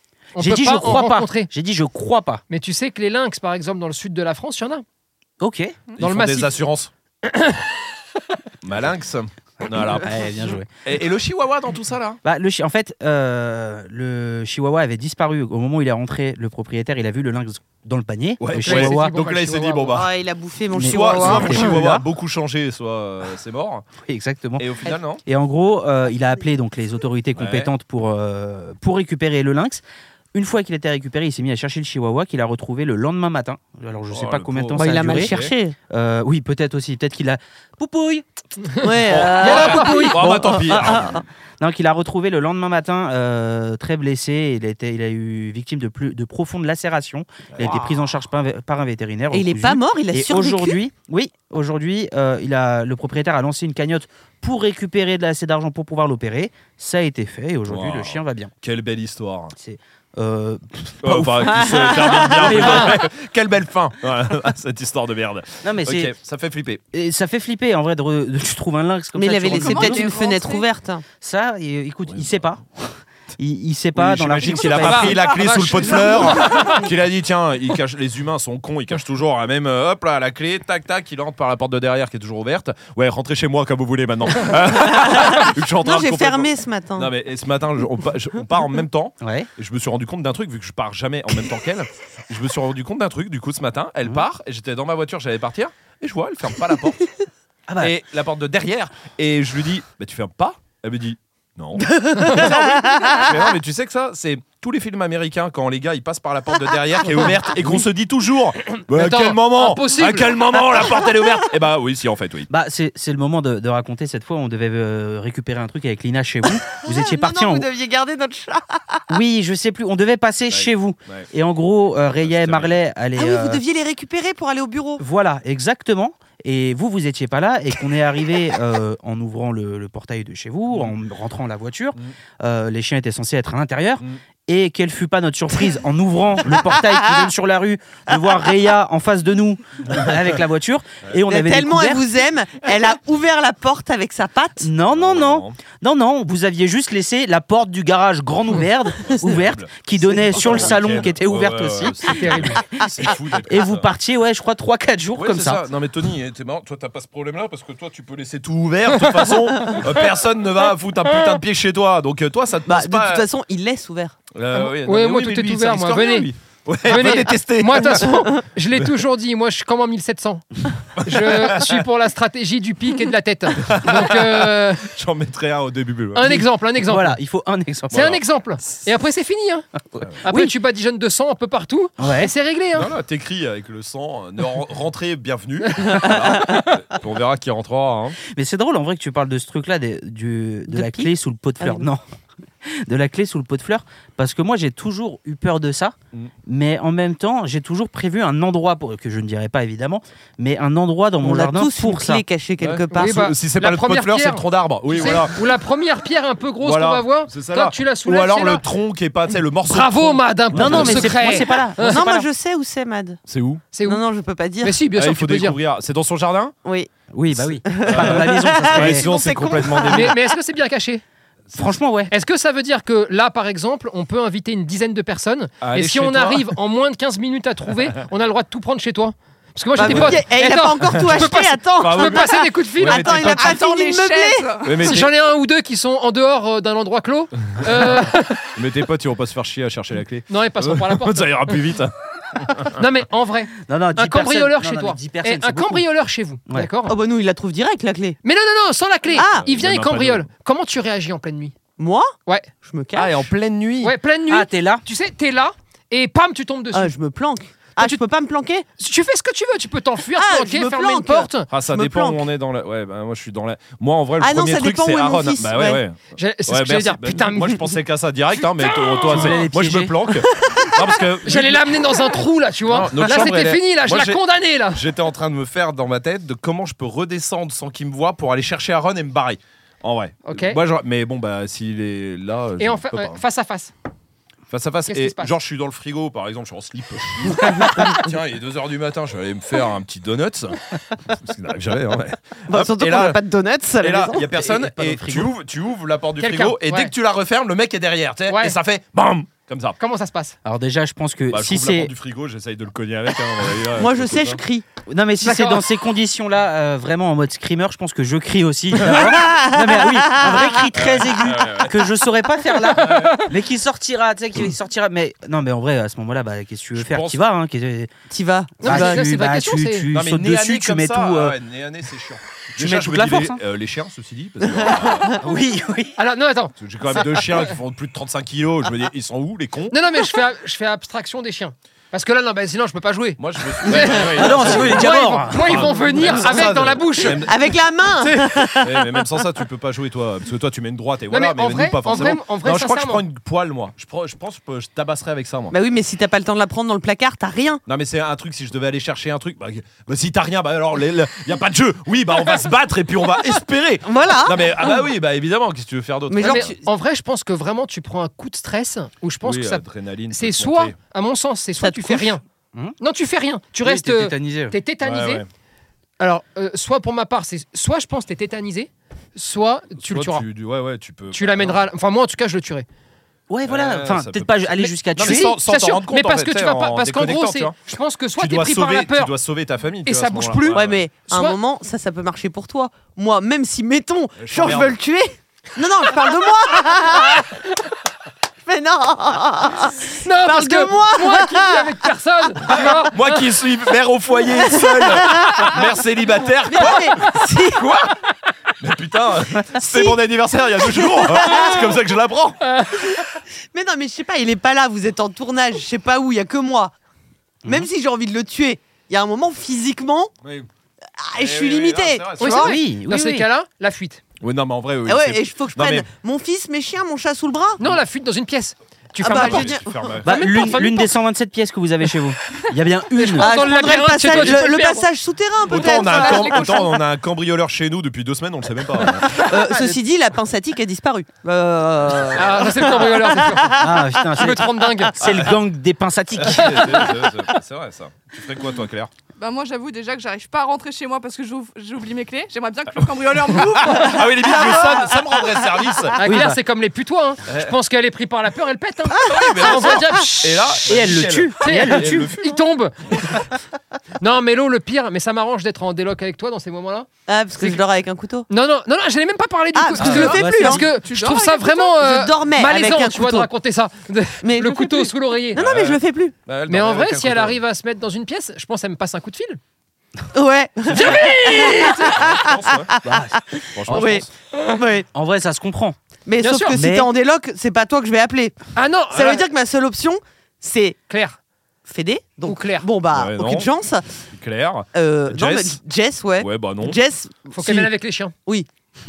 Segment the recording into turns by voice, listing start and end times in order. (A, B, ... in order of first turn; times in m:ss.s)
0:00.4-0:01.5 A
0:00.4-0:02.4 B
0:02.5-0:04.8 A
0:05.4-0:05.8 B
0:06.0-0:06.9 C
0:06.0-0:06.6 A
0:07.2-0:07.7 A
0:08.6-0:10.3 C
0:10.0-0:10.7 B
0:10.8-0:12.2 C
0:12.2-0:19.1 B
0:18.4-0:20.1 C
0:18.6-0:20.0 A
0:19.9-0:21.8 D
0:20.7-0:22.0 B
0:20.8-0:23.9 C
0:21.1-0:21.6 A
0:24.1-0:24.7 B
0:24.6-0:25.2 C
0:25.2-0:29.8 B
0:27.4-0:27.7 C
0:30.3-0:35.4 B
0:34.1-0:35.5 C
0:34.8-0:35.8 D
0:35.9-0:38.3 B
0:38.8-0:40.2 A
0:38.8-0:41.2 D
0:39.1-0:41.2 C
0:39.2-0:58.5 B
0:49.3-0:50.8 D
0:57.7-0:59.5 C
0:59.6-1:03.0 B
1:01.0-1:06.8 C
1:01.5-1:03.0 D
1:05.6-1:06.1 B
1:06.9-1:10.0 B
1:09.2-1:11.0 D
1:09.5-1:10.7 E
1:11.2-1:15.2 B
1:12.1-1:12.4 C
1:14.0-1:37.1 C
1:14.8-1:16.8 A
1:24.8-1:27.1 D
1:29.2-1:29.5 B
1:37.8-1:52.5 C
1:41.8-1:43.4 D
1:48.9-1:50.5 A
1:52.5-1:57.7 B
1:56.7-1:59.0 D
1:59.1-2:03.6 B
2:00.5-2:01.3 C
2:02.2-2:02.8 C
2:03.2-2:05.0 D
2:05.0-2:22.0 B
2:21.3-2:24.7 D
2:24.6-2:35.6 B
2:24.9-2:25.6 C
2:29.0-2:29.7 C
2:30.3-2:33.9 C
2:32.1-2:32.6 A
2:35.2-2:43.2 C
2:42.7-2:44.2 D
2:44.3-2:48.9 C
2:44.6-2:46.3 A
2:46.8-2:54.9 A
2:51.0-2:51.8 C
2:53.6-2:56.4 C
2:56.1-2:57.2 A
2:56.8-2:58.1 B
2:57.9-2:58.2 C
2:57.9-2:59.7 A
2:59.9-3:00.5 B
3:00.2-3:02.9 A
3:02.0-3:02.3 B
3:02.8-3:08.2 C
3:08.3-3:12.0 B
3:10.7-3:11.9 D
3:12.6-3:16.0 B
3:16.5-3:22.2 B
3:21.2-3:23.2 D
3:22.6-3:25.4 C
3:22.9-3:28.7 A
3:26.6-3:31.3 C
3:29.6-3:32.0 A
3:30.5-3:32.3 B
3:31.8-3:33.2 D
3:33.3-3:33.6 C
3:33.7-3:34.0 A
3:33.8-3:34.8 D
3:34.6-3:35.6 A
3:34.9-3:36.6 C
3:36.6-3:36.9 D
3:37.1-3:39.1 B
3:37.4-3:40.2 C
3:37.6-3:40.2 D
3:39.9-3:41.0 A
3:41.6-3:42.1 B
3:42.1-3:53.4 A
3:45.6-3:46.5 C
3:49.8-3:54.7 D
3:49.8-3:50.2 C
3:50.9-3:51.3 C
3:51.8-3:53.6 C
3:53.2-3:55.0 E
3:54.6-3:55.1 C
3:54.8-3:58.5 A
3:57.5-3:57.9 C
3:58.6-4:02.8 C
4:00.3-4:01.5 A
4:02.8-4:07.0 A
4:03.6-4:05.8 B
4:06.9-4:08.2 D
4:08.2-4:11.6 A
4:09.1-4:09.5 D
4:09.2-4:10.3 C
4:11.8-4:13.3 D
4:13.0-4:14.0 C
4:13.8-4:16.9 A
4:14.3-4:14.8 B
4:16.7-4:18.6 D
4:17.8-4:18.0 A
4:18.8-4:21.5 A
4:20.2-4:22.2 D
4:21.5-4:31.9 C
4:24.2-4:25.8 D
4:26.2-4:27.7 A
4:29.1-4:30.0 B
4:30.4-4:30.7 D
4:31.2-4:34.8 A
4:32.7-4:34.2 C
4:34.7-4:43.2 C
4:40.2-4:40.6 A
4:42.6-4:43.7 A
4:44.5-4:53.2 C
4:44.9-4:45.3 A
4:47.4-4:47.8 D
4:52.5-4:54.3 D
4:53.8-4:59.8 C
4:54.4-4:55.3 B
4:56.2-4:56.9 A
4:58.3-4:58.6 A
4:59.8-5:00.4 A
5:00.4-5:01.9 B
5:01.3-5:04.4 C
5:03.8-5:04.6 D
5:04.9-5:17.9 B
5:05.2-5:05.7 A
5:08.9-5:10.6 D
5:10.7-5:11.8 C
5:12.8-5:13.2 A
5:12.8-5:13.2 C
5:16.8-5:17.2 C
5:18.1-5:19.1 D
5:18.6-5:19.9 A
5:18.6-5:21.4 B
5:19.9-5:25.2 C
5:22.6-5:23.4 B
5:25.2-5:26.0 B
5:26.0-5:27.4 A
5:26.6-5:29.8 C
5:29.7-5:37.3 A
5:33.2-5:45.5 C
5:34.1-5:36.2 B
5:37.0-5:39.1 D
5:41.1-5:43.0 A
5:45.5-5:47.6 D
5:47.7-5:56.6 C
5:53.8-5:54.9 D
5:56.1-5:56.6 D
5:56.2-6:02.2 A
5:59.2-6:00.8 C
6:01.6-6:02.2 D
6:02.8-6:05.2 A
6:03.6-6:04.6 B
6:04.8-6:05.2 C
6:06.0-6:10.2 A
6:09.8-6:11.6 C
6:11.1-6:12.7 A
6:13.3-6:15.3 B
6:13.5-6:17.6 C
6:15.0-6:19.1 A
6:18.2-6:20.8 C
6:19.8-6:21.4 A
6:20.5-6:27.3 D
6:24.2-6:24.8 C
6:28.5-6:31.9 D
6:29.9-6:33.2 A
6:32.9-6:38.0 C
6:34.4-6:35.6 D
6:36.5-6:37.8 D
6:38.6-6:42.5 C
6:39.6-6:40.0 D
6:40.6-6:41.8 D
6:43.5-6:46.7 D
6:47.5-6:50.1 D
6:51.0-6:52.6 D
6:51.2-6:52.4 C
6:52.2-6:54.0 A
6:52.3-6:53.3 B
6:54.2-6:55.9 C
6:54.9-6:57.6 D
6:57.6-7:00.9 A
6:59.0-7:00.0 D
6:59.0-7:00.1 C
7:00.0-7:03.4 B
7:03.0-7:04.9 A
7:03.2-7:06.8 D
7:05.4-7:09.2 C
7:05.5-7:06.4 A
7:09.1-7:13.7 D
7:12.2-7:15.0 A
7:13.6-7:16.8 B
7:15.0-7:15.4 C
7:16.2-7:18.9 C
7:16.5-7:17.0 A
7:19.2-7:24.1 E
7:23.2-7:26.0 C
7:24.4-7:25.0 D
7:26.0-7:30.6 A
7:26.0-7:26.4 B
7:27.3-7:27.5 C
7:28.9-7:30.0 D
7:29.0-7:32.4 C
7:30.6-7:32.1 B
7:31.4-7:33.0 A
7:32.9-7:33.2 C
7:34.0-7:37.6 A
7:37.1-7:38.3 D
7:38.3-7:45.4 A
7:39.5-7:40.7 D
7:39.8-7:40.6 B
7:40.7-7:41.7 E
7:41.8-7:43.3 D
7:44.2-7:46.2 D
7:45.4-7:47.4 C
7:46.5-7:49.4 A
7:50.1-7:54.9 D
7:50.7-7:51.9 A
7:51.8-7:52.7 C
7:52.8-7:53.8 B
7:53.5-7:54.1 C
7:54.9-7:55.8 B
7:56.1-7:58.4 D
7:56.2-7:56.6 A
7:56.5-7:56.9 B
7:58.6-7:59.3 A
7:58.9-8:00.8 D
8:00.9-8:01.2 A
8:01.7-8:03.9 D
8:02.2-8:02.7 A
8:02.9-8:03.5 C
8:04.1-8:05.6 C
8:04.7-8:07.3 D
8:06.2-8:06.8 C
8:07.3-8:08.1 A